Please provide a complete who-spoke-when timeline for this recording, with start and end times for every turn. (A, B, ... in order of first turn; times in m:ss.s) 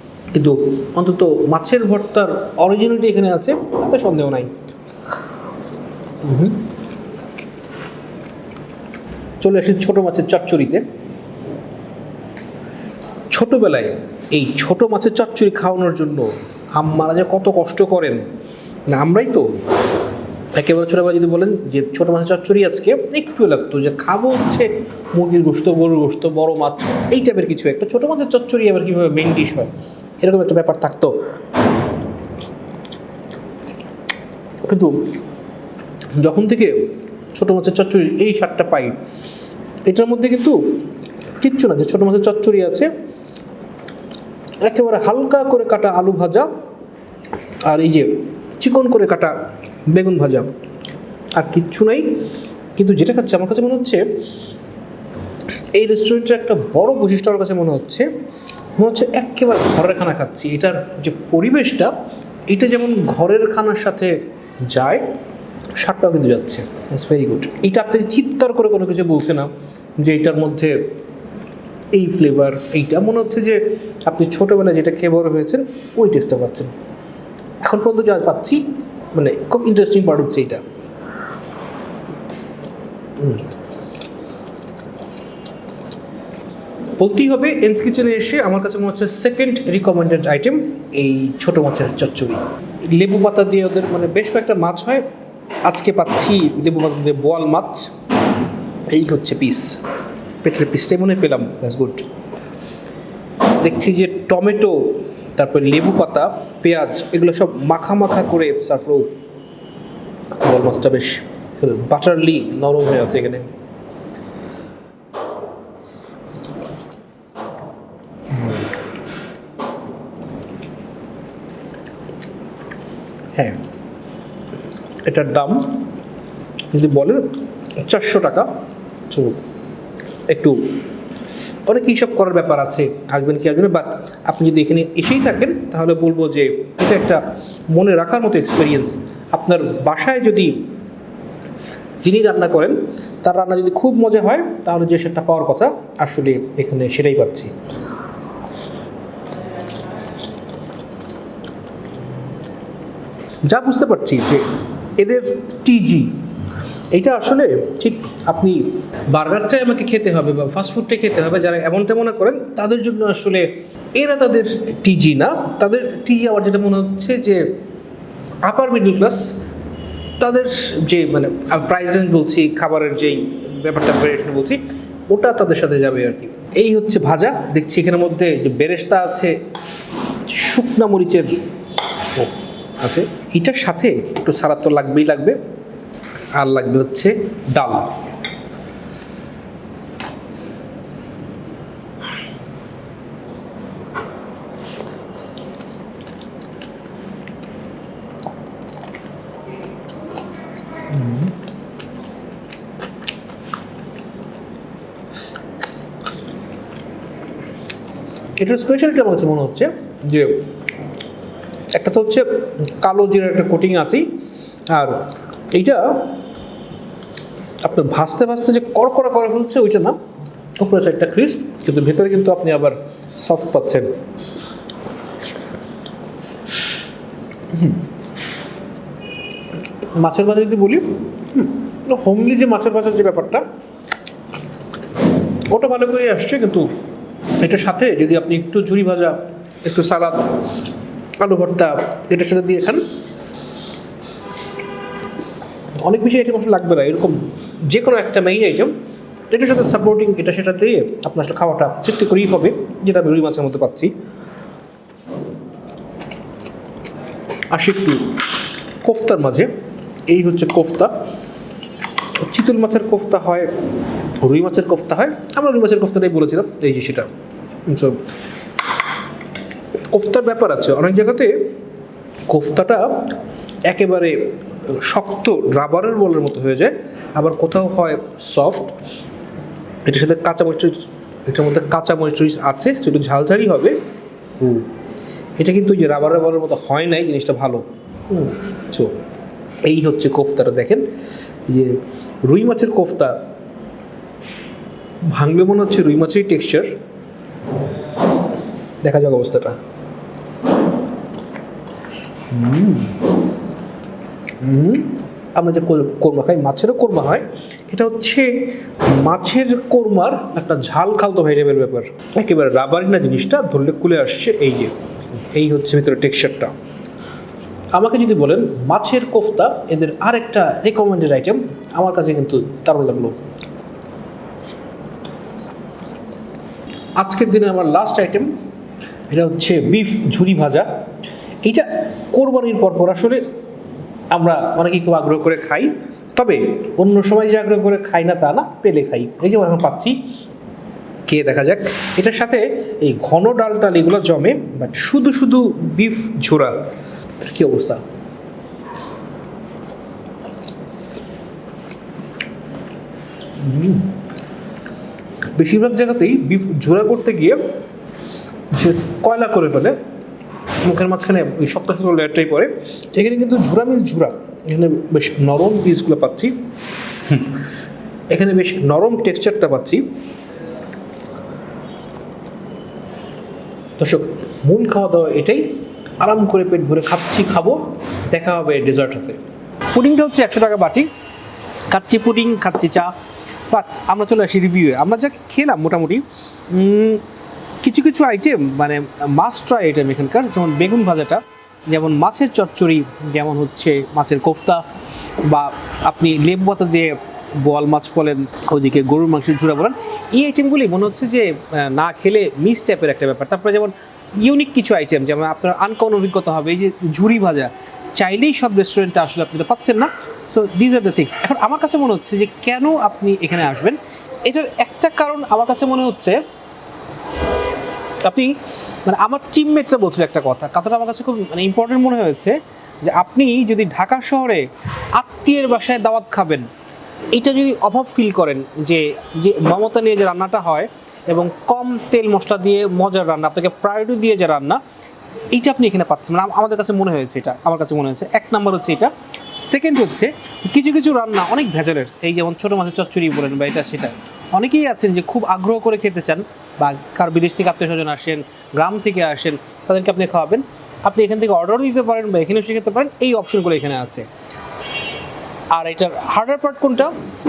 0:00.3-0:04.5 A
0:06.2-0:06.6 A
0:09.4-0:10.8 A
0:13.3-0:18.2 A
0:18.9-0:19.5 A
0:20.6-0:31.1 A
0:34.6-0:35.0 A
0:36.2-0:39.0 A
0:39.9-0:40.8 A
0:41.4-0:42.9 A
0:44.6-0:46.5 A
0:47.6-0:49.3 A
0:49.9-0:50.5 A
0:51.4-0:52.1 A
0:52.8-0:54.0 A
0:55.7-0:58.1 A
0:58.8-1:01.9 A
1:02.5-1:05.0 A
1:05.8-1:10.8 A
1:11.9-1:16.7 A
1:17.6-1:20.6 A
1:23.2-1:23.5 A
1:27.0-1:35.0 A
1:35.6-1:37.9 A
1:38.9-1:39.8 A
1:40.4-1:42.1 A
1:43.6-1:49.2 A
1:50.4-1:53.5 A
1:58.3-1:58.7 A
2:05.0-2:05.8 A
2:06.7-2:08.5 A
2:09.1-2:09.4 A
2:10.3-2:10.8 A
2:11.7-2:20.6 A
2:22.0-2:27.5 A
2:33.5-2:36.2 A
2:36.9-2:47.5 A
2:48.4-2:49.3 A
2:50.2-2:59.4 A
3:00.3-3:01.4 A
3:02.1-3:05.4 A
3:06.4-3:08.0 A
3:20.9-3:21.3 A
3:28.4-3:30.5 A
3:31.7-3:34.1 A
3:34.7-3:36.1 A
3:37.6-3:40.0 A
3:40.6-3:43.9 A
3:47.5-3:47.8 A
3:50.0-3:53.4 A
3:55.5-3:56.7 A
3:57.4-4:00.3 A
4:01.2-4:02.8 A
4:05.8-4:08.8 A
4:09.3-4:13.9 A
4:17.5-4:18.2 A
4:18.8-4:19.5 A
4:20.1-4:20.9 A
4:22.2-4:23.5 A
4:24.2-4:27.1 A
4:27.7-4:28.1 A
4:29.9-4:31.4 A
4:32.3-4:38.8 A
4:39.9-4:43.8 A
4:44.4-4:44.7 A
4:45.4-4:49.0 A
4:49.6-4:50.9 A
4:51.5-4:53.2 A
4:55.1-4:56.7 A
4:58.8-4:59.6 A
5:02.3-5:03.0 A
5:04.4-5:16.5 A
5:17.7-5:23.2 A
5:27.0-5:28.3 A
5:29.1-5:30.7 A
5:31.4-5:33.2 A
5:34.1-5:40.0 A
5:41.1-5:46.6 A
5:47.2-5:47.8 A
5:53.4-5:53.9 A
5:55.4-5:57.4 A
5:58.5-5:59.8 A
6:00.6-6:06.3 A
6:07.1-6:07.4 A
6:08.1-6:09.8 A
6:13.8-6:15.5 A
6:16.0-6:17.6 A
6:18.1-6:19.2 A
6:19.7-6:20.9 A
6:21.7-6:22.9 A
6:23.5-6:27.0 A
6:27.6-6:34.6 A
6:35.2-6:56.2 A
6:58.0-6:58.3 A
6:58.8-7:06.5 A
7:07.1-7:14.6 A
7:15.3-7:34.1 A
7:35.5-7:37.0 A